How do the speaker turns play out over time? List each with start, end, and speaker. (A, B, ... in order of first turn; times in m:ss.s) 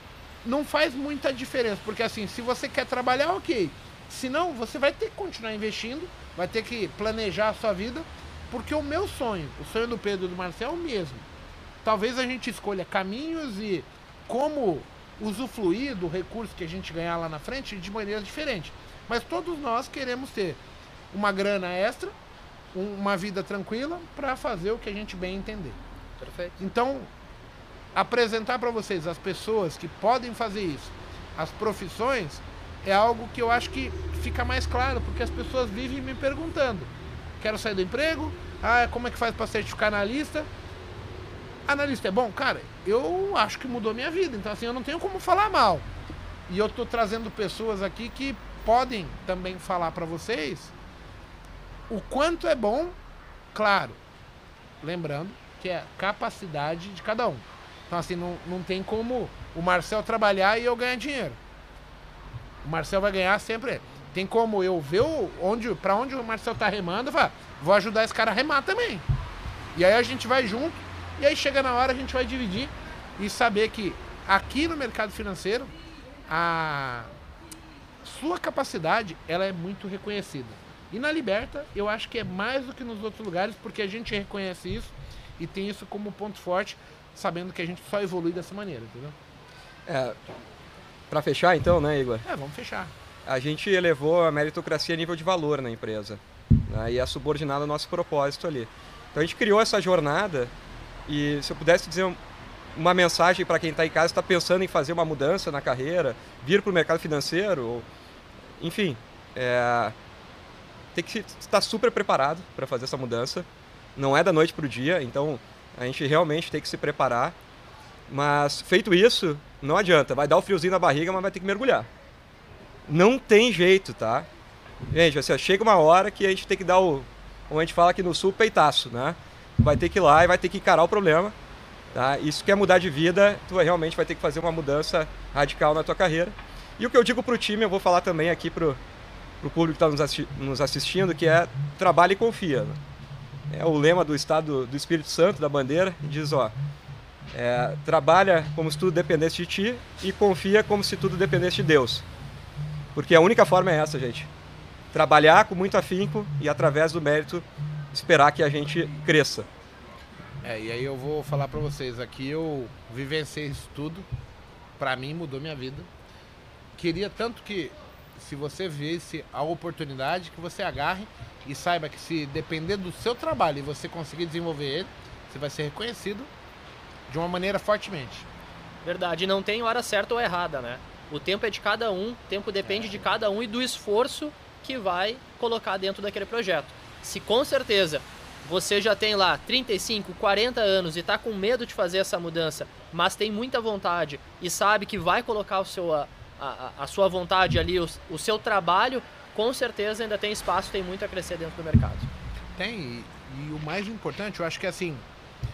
0:00.4-0:11.3 A
0:11.8-0:20.6 A
0:21.1-0:22.1 A
0:22.7-0:25.8 A
0:26.2-0:26.6 B
0:26.6-0:27.1 A
0:28.0-0:40.5 A
0:41.7-0:45.9 A
0:46.5-0:50.7 A
0:51.9-0:53.0 A
0:53.5-0:54.0 A
0:54.8-1:01.4 A
1:02.6-1:09.0 A
1:09.7-1:15.7 A
1:16.3-1:17.1 A
1:18.0-1:29.2 A
1:29.9-1:30.2 C
1:31.1-1:32.2 C
1:32.2-1:32.9 A
1:33.3-1:40.5 C
1:41.1-1:42.2 C
1:42.8-1:47.9 C
1:48.6-1:50.0 C
1:50.9-1:57.4 C
1:58.1-2:01.9 C
2:02.9-2:04.3 C
2:04.9-2:11.4 C
2:11.9-2:18.8 C
2:19.4-2:22.8 C
2:23.5-2:26.5 C
2:27.3-2:32.0 C
2:33.0-2:34.3 C
2:34.9-2:39.5 C
2:40.4-2:44.1 A
2:44.8-2:45.9 A
2:46.8-2:56.3 A
2:57.1-2:58.3 A
2:58.8-3:22.1 B
3:02.7-3:03.0 A
3:22.6-3:25.0 A